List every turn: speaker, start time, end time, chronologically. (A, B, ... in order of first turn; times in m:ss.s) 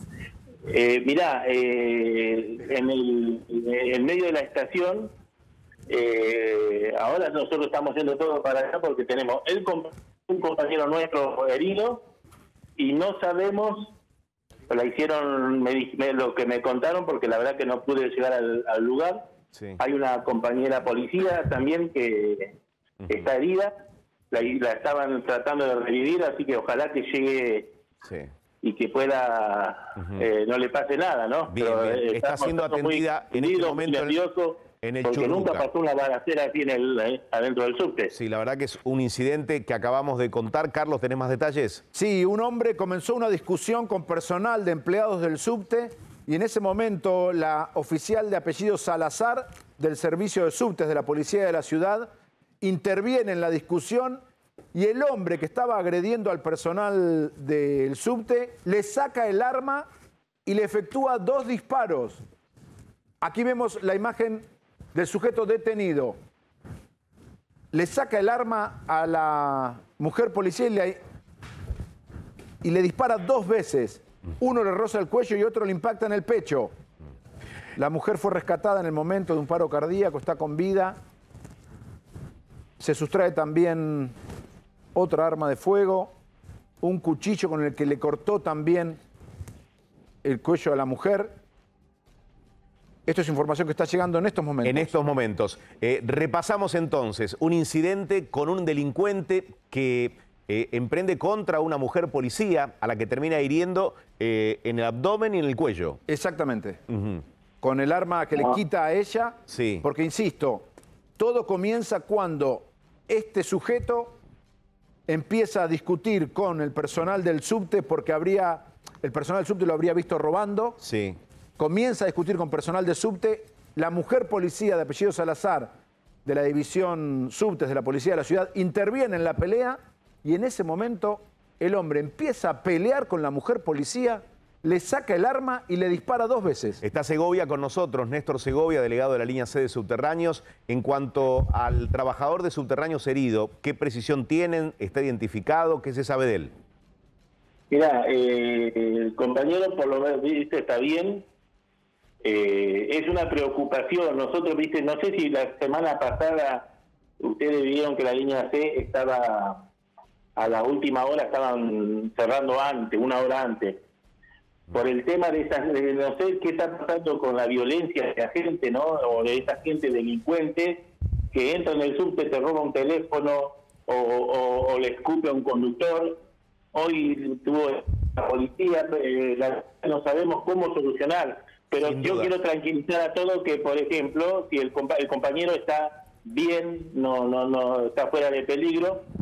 0:00.7-0:05.1 A
0:05.9-0:12.1 A
0:12.8-0:13.9 A
0:14.7-0:19.3 A
0:19.5-0:19.8 B
0:19.8-0:22.6 A
0:23.0-0:23.3 B
0:23.1-0:23.8 A
0:24.3-0:27.7 A
0:28.0-0:28.3 B
0:28.6-0:38.1 A
0:30.0-0:30.2 B
0:31.5-0:34.2 B
0:34.8-0:35.7 B
0:38.1-0:41.8 B
0:41.9-0:52.1 C
0:52.6-0:54.2 C
0:54.7-0:59.9 C
1:00.4-1:02.2 C
1:03.2-1:06.2 C
1:07.7-1:11.0 C
1:12.6-1:16.7 C
1:17.8-1:21.0 C
1:22.8-1:24.1 C
1:25.0-1:26.1 C
1:26.8-1:29.0 C
1:30.2-1:31.4 C
1:33.1-1:34.9 C
1:34.6-1:46.0 B
1:46.1-1:46.8 C
1:46.9-1:47.2 B
1:47.6-1:50.7 C
1:49.5-1:49.8 B
1:51.2-1:54.2 C
1:55.1-2:00.8 C
2:00.8-2:01.2 B
2:01.6-2:05.7 C
2:06.2-2:16.8 C
2:16.8-2:26.5 B
2:27.7-2:31.3 A
2:32.2-2:39.6 A
2:40.4-2:43.8 A
2:44.7-2:56.2 A
2:56.7-3:09.0 A
3:01.8-3:02.3 B